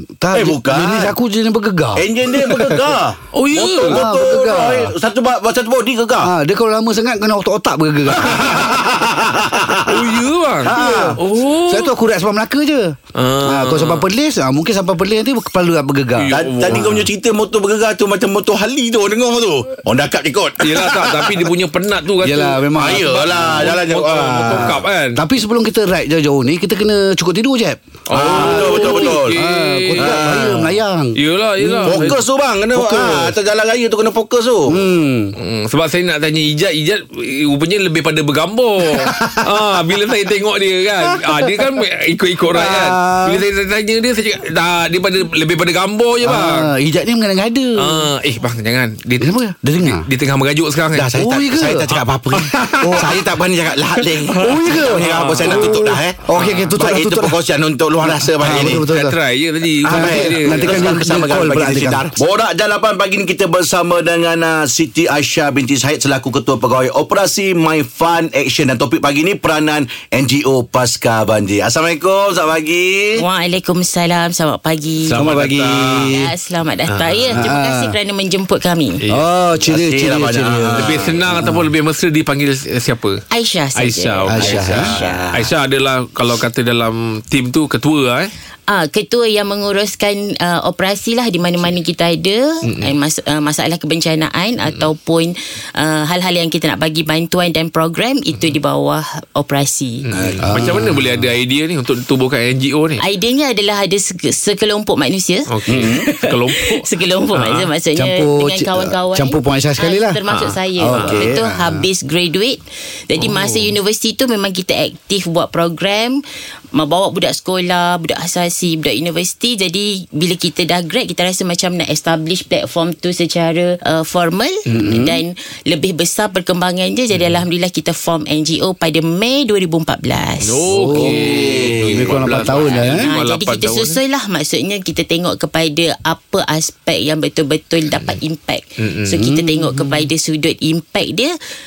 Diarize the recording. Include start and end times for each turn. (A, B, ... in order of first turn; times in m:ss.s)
0:00.2-0:02.9 A
0:00.3-0:01.1 B
0:02.0-0:06.3 B
0:03.3-0:04.0 C
0:03.8-0:04.9 A
0:06.2-0:08.7 A
0:08.1-0:11.2 B
0:08.2-0:08.8 C
0:09.9-0:11.9 C
0:10.6-0:17.1 A
0:13.1-0:14.0 C
0:16.2-0:17.0 C
0:16.3-0:21.5 B
0:20.6-0:25.2 C
0:22.2-0:23.8 A
0:22.8-0:24.8 B
0:24.5-0:32.2 A
0:28.1-0:30.3 C
0:28.1-0:29.4 B
0:30.0-0:30.7 B
0:31.2-0:32.2 C
0:31.9-0:34.8 B
0:32.8-0:33.2 C
0:32.9-0:33.2 A
0:34.7-0:35.4 A
0:35.4-0:46.7 C
0:38.9-0:39.4 A
0:41.0-0:41.7 A
0:42.5-0:43.4 A
0:46.2-0:48.1 A
0:47.8-0:51.1 C
0:49.2-0:50.1 A
0:50.9-0:56.2 B
0:51.1-0:51.9 A
0:51.9-0:53.1 C
0:52.8-0:53.1 A
0:54.0-0:56.7 C
0:54.4-0:57.4 A
0:56.8-0:58.8 B
0:58.0-0:59.2 A
0:58.6-1:01.1 C
0:59.8-1:13.2 B
0:59.9-1:02.1 A
1:13.2-1:15.2 D
1:15.1-1:16.1 C
1:15.1-1:16.2 A
1:16.1-1:19.0 D
1:16.9-1:17.5 C
1:17.3-1:17.9 A
1:19.1-1:21.6 A
1:19.6-1:21.1 B
1:20.8-1:23.2 C
1:23.3-1:25.3 D
1:23.8-1:28.3 C
1:24.3-1:24.9 A
1:24.5-1:25.5 B
1:28.7-1:40.0 D
1:40.0-1:43.0 C
1:40.1-1:40.7 B
1:40.4-1:41.2 A
1:43.0-1:56.2 D
1:45.5-1:47.7 C
1:45.7-1:46.1 B
1:48.0-1:50.2 A
1:50.3-1:51.3 C
1:50.8-1:51.9 A
1:53.2-1:53.7 C
1:56.7-2:10.6 D
2:04.7-2:05.2 A
2:07.1-2:07.4 C
2:10.4-2:14.0 C
2:10.7-2:13.1 A
2:11.0-2:12.5 B
2:12.6-2:21.3 D
2:18.8-2:19.2 C
2:19.1-2:19.9 A